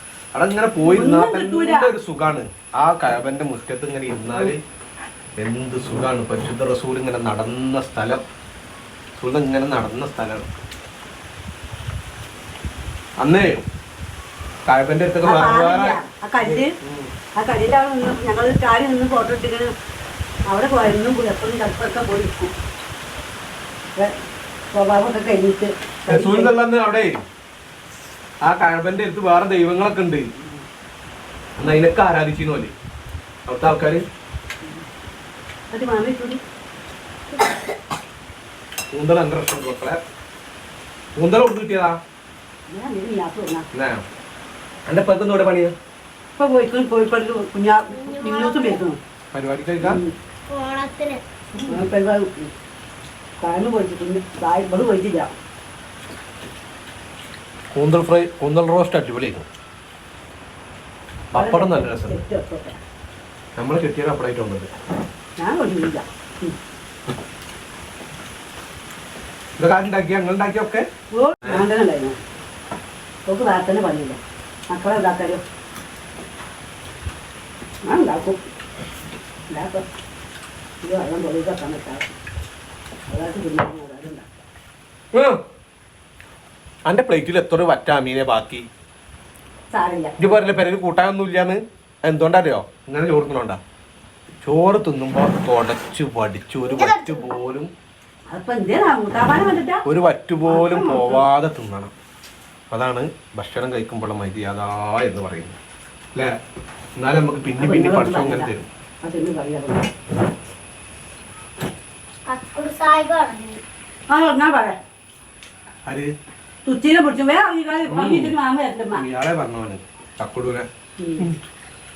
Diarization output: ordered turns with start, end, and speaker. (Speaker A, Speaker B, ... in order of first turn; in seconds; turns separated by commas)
Speaker A: 0.3-4.6, Speaker B: 0.8-1.9, Speaker A: 5.4-8.2, Speaker A: 9.2-10.5, Speaker A: 13.2-13.7, Speaker A: 14.7-17.1, Speaker B: 15.2-16.7, Speaker B: 17.4-19.7, Speaker B: 20.5-22.5, Speaker B: 24.7-26.5, Speaker A: 26.1-27.2, Speaker A: 28.4-30.3, Speaker A: 31.6-32.7, Speaker A: 33.5-34.0, Speaker B: 35.7-36.4, Speaker A: 38.9-40.0, Speaker A: 41.2-42.0, Speaker B: 42.7-43.7, Speaker A: 43.7-44.0, Speaker A: 44.9-45.8, Speaker B: 46.4-49.0, Speaker C: 47.9-48.9, Speaker A: 49.3-50.0, Speaker B: 49.8-50.1, Speaker C: 50.5-51.2, Speaker B: 51.7-52.5, Speaker B: 53.4-55.3, Speaker A: 57.7-59.5, Speaker A: 61.3-62.2, Speaker B: 61.3-62.8, Speaker A: 63.6-64.7, Speaker B: 65.4-66.5, Speaker A: 69.6-70.9, Speaker B: 71.1-72.2, Speaker B: 73.3-75.4, Speaker B: 77.9-78.4, Speaker B: 79.5-79.8, Speaker B: 80.8-82.1, Speaker B: 83.1-84.3, Speaker A: 85.1-85.4, Speaker A: 86.9-88.7, Speaker B: 89.7-90.3, Speaker A: 90.2-93.6, Speaker A: 94.4-97.7, Speaker C: 96.7-97.3, Speaker B: 98.3-99.8, Speaker A: 99.8-101.9, Speaker B: 100.5-101.2, Speaker A: 102.7-105.6, Speaker A: 107.0-108.7, Speaker B: 107.6-109.9, Speaker C: 112.3-113.6, Speaker B: 114.1-114.8, Speaker A: 115.9-116.1, Speaker B: 116.7-119.0, Speaker A: 117.8-118.3, Speaker A: 118.9-120.7, Speaker B: 121.0-121.3